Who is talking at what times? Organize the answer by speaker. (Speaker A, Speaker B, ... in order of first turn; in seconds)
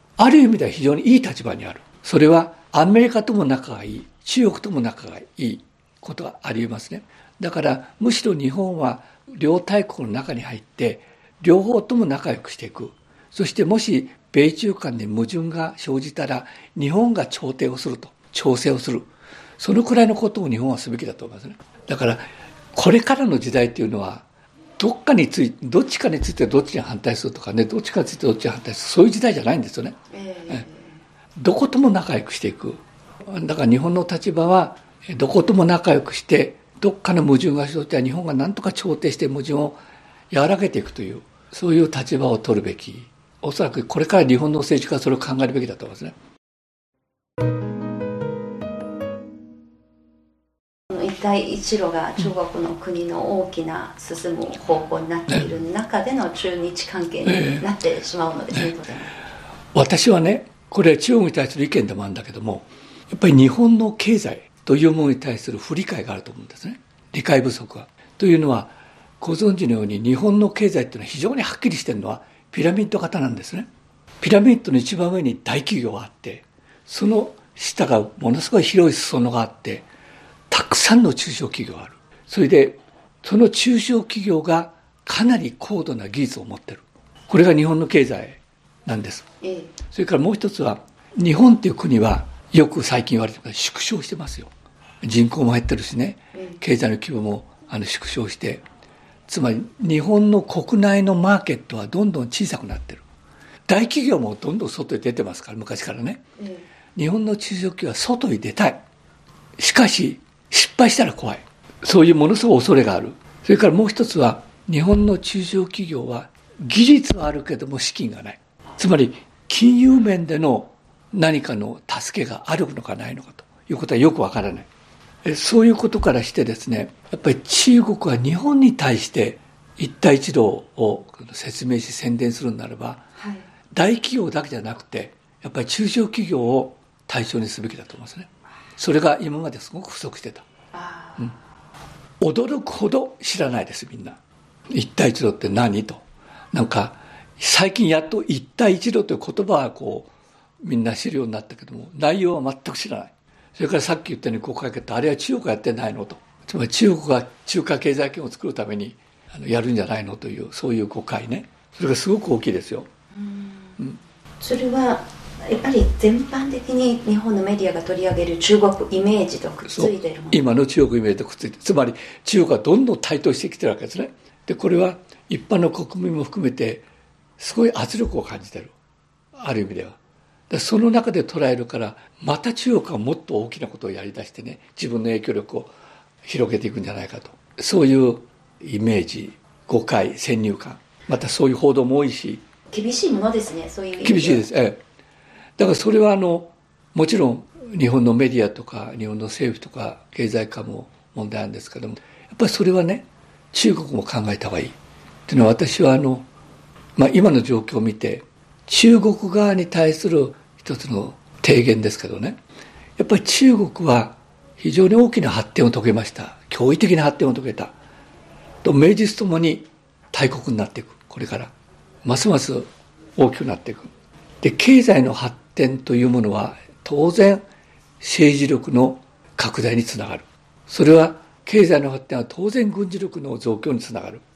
Speaker A: 0.2-19.1, 19.6-24.2, 24.8-30.0, 31.4-46.2, 57.3-57.6, 59.7-73.7, 74.2-79.9, 80.5-89.3, 89.9-94.5, 95.0-98.6, 99.3-103.0, 103.7-106.2, 107.0-108.8, 109.6-124.7, 125.2-133.0, 133.7-140.4, 142.2-144.2, 144.7-150.1, 150.6-162.9, 169.7-176.9, 177.4-178.7, 179.3-180.0, 180.5-185.7, 186.2-192.4, 194.0-194.8, 195.6-204.8, 205.3-206.3, 207.0-212.4, 213.0-217.7, 218.6-221.5, 222.0-227.4, 228.0-234.2
Speaker B: 30.1-30.9, 50.9-59.1, 89.4-89.7, 96.3-96.6, 106.4-106.7, 133.2-133.5, 140.7-141.3, 163.1-170.4, 192.7-194.5